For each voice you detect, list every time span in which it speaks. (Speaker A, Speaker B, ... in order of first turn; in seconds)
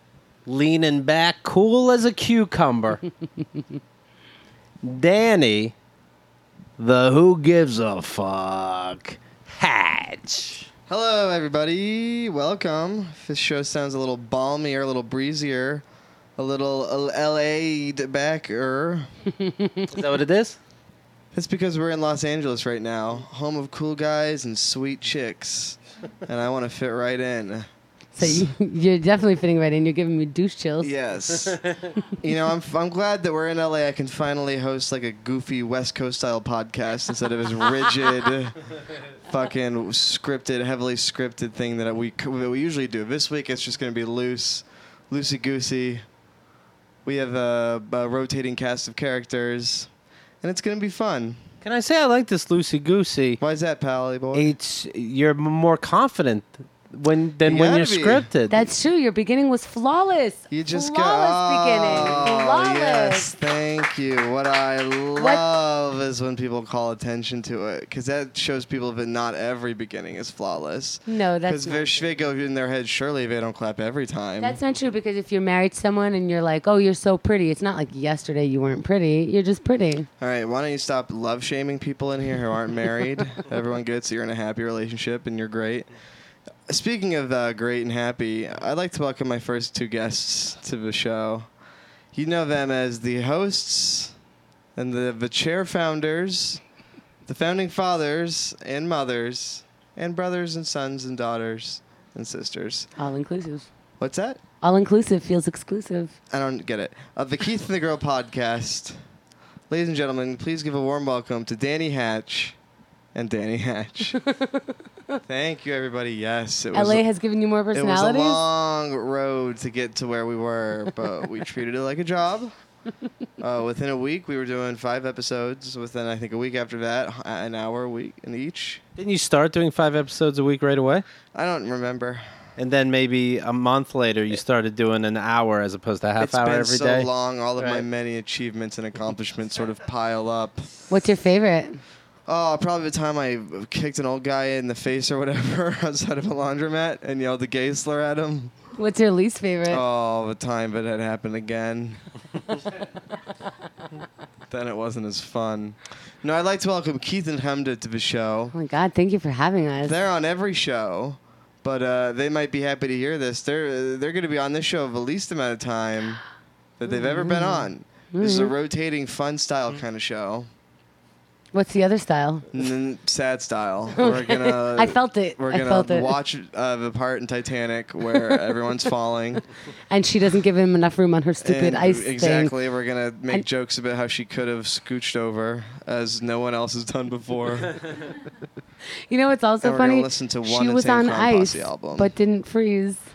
Speaker A: 0.5-3.0, 4.8-5.7, 6.8-10.7, 19.9-20.6, 31.5-31.9, 51.6-53.4, 54.3-58.6, 129.0-131.0, 132.6-137.8
Speaker B: 10.9-15.8, 16.4-19.1, 21.3-27.7, 30.8-31.6, 32.2-38.6, 39.2-46.0, 47.0-49.9, 50.4-51.4, 53.4-54.5, 57.5-58.3, 60.5-74.6, 80.2-85.9, 86.7-91.5, 92.1-94.1, 94.8-96.6, 97.3-102.9, 104.0-104.4, 106.3-109.0, 109.7-112.6, 113.1-114.2, 115.3-117.0, 117.7-122.5, 123.4-128.8, 131.3-132.2, 136.2-140.7, 142.3-148.6, 149.7-152.0, 154.5-158.5, 159.8-166.2, 166.8-170.5, 172.5-179.5, 181.4-187.9, 189.6-192.1
Speaker C: 19.4-20.1, 28.1-30.9, 58.5-63.3, 65.2-65.4, 71.1-71.8, 74.4-80.1, 103.0-103.7, 104.6-106.1, 114.3-114.6, 116.7-118.4, 140.9-141.8, 148.8-149.8, 158.5-160.0, 166.9-168.5, 171.5-172.5, 174.0-176.1, 179.9-182.5, 189.1-193.0